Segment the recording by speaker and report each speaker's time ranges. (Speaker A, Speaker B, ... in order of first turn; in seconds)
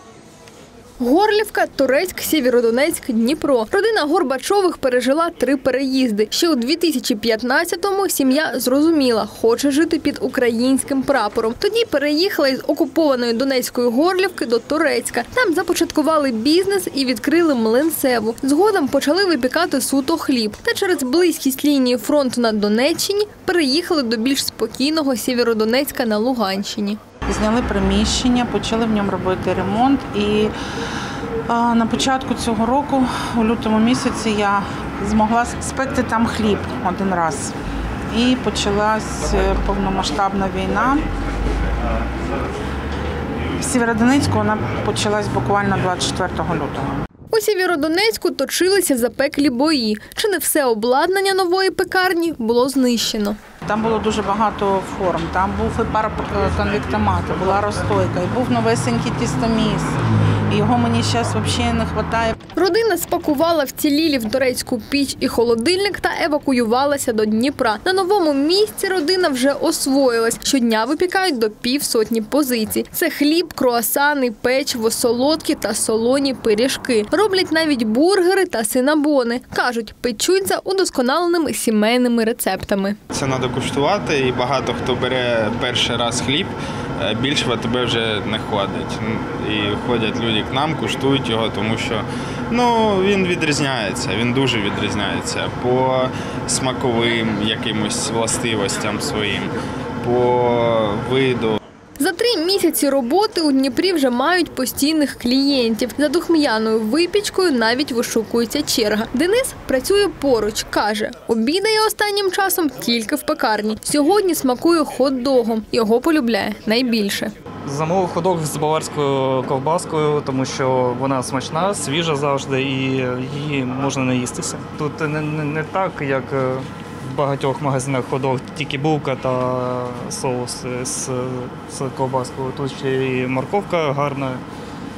Speaker A: 1.0-27.0, 47.3-53.4, 62.5-83.0, 102.0-117.3
Speaker B: 27.3-30.5, 31.5-37.5, 38.1-41.0, 43.6-47.0, 53.6-60.0, 60.5-62.3
Speaker C: 83.1-101.6
Speaker D: 117.6-134.4